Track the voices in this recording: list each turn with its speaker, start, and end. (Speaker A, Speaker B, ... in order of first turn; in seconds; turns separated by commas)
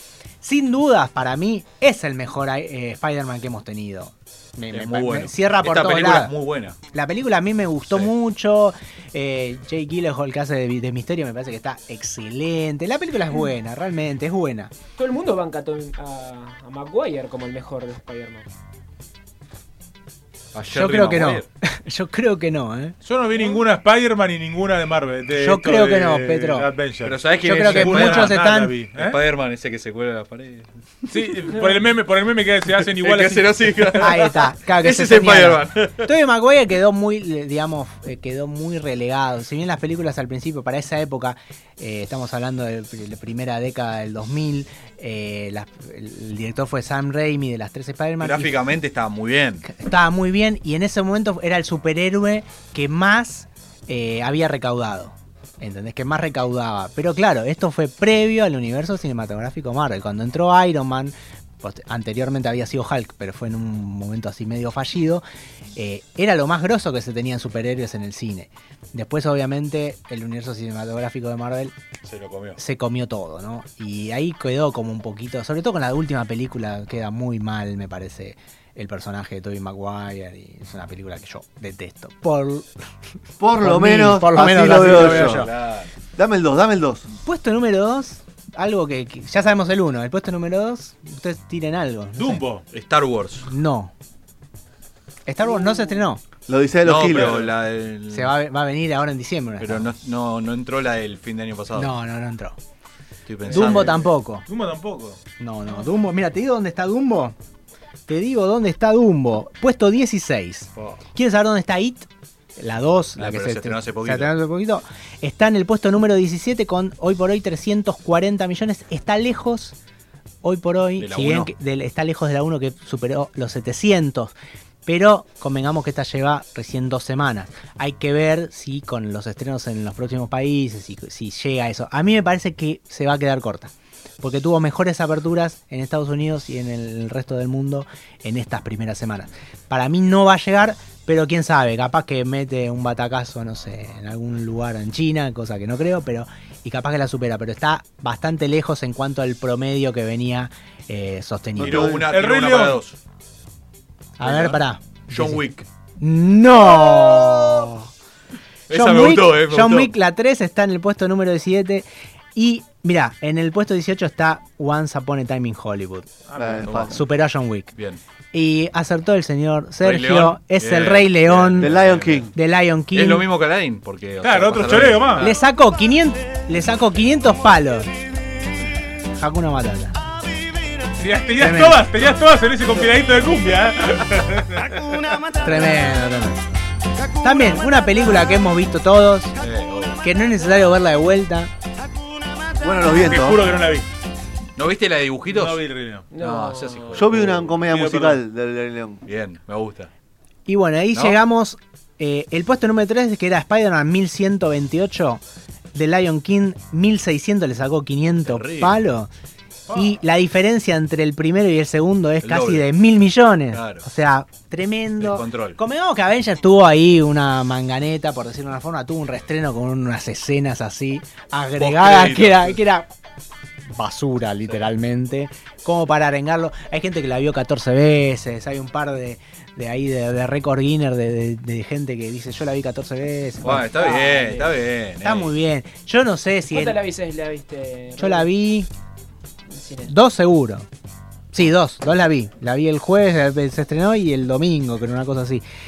Speaker A: 0.4-6.3, Speaker B: 4.7-6.8, Speaker A: 6.9-14.7, Speaker B: 7.9-8.1, Speaker C: 15.0-18.5, Speaker B: 20.5-21.5, Speaker A: 20.7-23.0, Speaker D: 23.0-29.2, Speaker A: 25.4-26.7, Speaker B: 27.0-30.7, Speaker A: 27.4-28.7, Speaker D: 31.1-34.1, Speaker B: 32.7-35.8, Speaker A: 34.0-48.7, Speaker B: 48.2-49.6, Speaker A: 49.6-65.2, Speaker A: 65.8-71.8, Speaker B: 72.1-72.6, Speaker A: 72.6-82.7, Speaker E: 83.4-85.5, Speaker A: 83.6-85.5, Speaker B: 84.6-85.9, Speaker E: 86.2-87.1, Speaker A: 87.2-92.4, Speaker D: 92.2-92.6, Speaker B: 92.7-93.5, Speaker A: 93.5-93.9, Speaker A: 95.3-96.2, Speaker E: 96.5-97.5, Speaker B: 96.8-98.3, Speaker A: 98.1-99.9, Speaker B: 99.6-101.9, Speaker A: 101.7-102.6, Speaker B: 103.3-104.1, Speaker D: 103.5-105.2, Speaker A: 103.5-104.4, Speaker A: 105.4-107.4, Speaker A: 108.1-119.8, Speaker B: 113.2-114.3, Speaker A: 120.4-124.3, Speaker B: 121.0-121.5, Speaker A: 124.9-152.0, Speaker E: 151.6-152.1, Speaker B: 151.6-153.0, Speaker D: 152.1-152.8, Speaker A: 154.2-155.4, Speaker B: 154.2-155.7, Speaker A: 156.0-157.9, Speaker B: 158.7-159.9, Speaker A: 158.7-166.2, Speaker D: 166.3-166.9, Speaker E: 166.4-167.0, Speaker B: 166.6-167.0, Speaker A: 166.9-167.7, Speaker B: 167.8-168.0, Speaker A: 168.3-171.7, Speaker B: 169.8-172.3, Speaker E: 171.6-172.3, Speaker A: 172.3-173.3, Speaker B: 172.9-175.3, Speaker D: 174.2-175.3, Speaker A: 175.2-177.9, Speaker A: 179.2-180.0, Speaker D: 181.0-185.2, Speaker A: 181.4-181.9, Speaker A: 185.4-186.4, Speaker A: 187.2-189.3, Speaker B: 189.4-190.0, Speaker A: 190.0-191.5, Speaker E: 192.6-193.6, Speaker D: 192.9-193.9, Speaker B: 194.6-195.6, Speaker D: 195.3-196.1, Speaker C: 196.1-197.0, Speaker B: 196.2-197.6, Speaker E: 196.9-199.0, Speaker D: 197.6-198.2, Speaker B: 199.1-199.9, Speaker A: 200.5-205.2, Speaker B: 200.9-201.2, Speaker A: 205.7-209.1, Speaker B: 208.1-208.8, Speaker A: 209.7-222.9, Speaker B: 212.2-212.7, Speaker B: 213.5-213.8, Speaker B: 215.0-215.6, Speaker B: 221.6-222.6, Speaker A: 223.7-234.1, Speaker B: 233.4-235.3, Speaker C: 233.8-234.6, Speaker A: 235.0-236.8, Speaker C: 236.5-238.3, Speaker A: 238.0-238.7, Speaker C: 239.5-239.9, Speaker A: 239.8-240.7, Speaker A: 241.3-245.4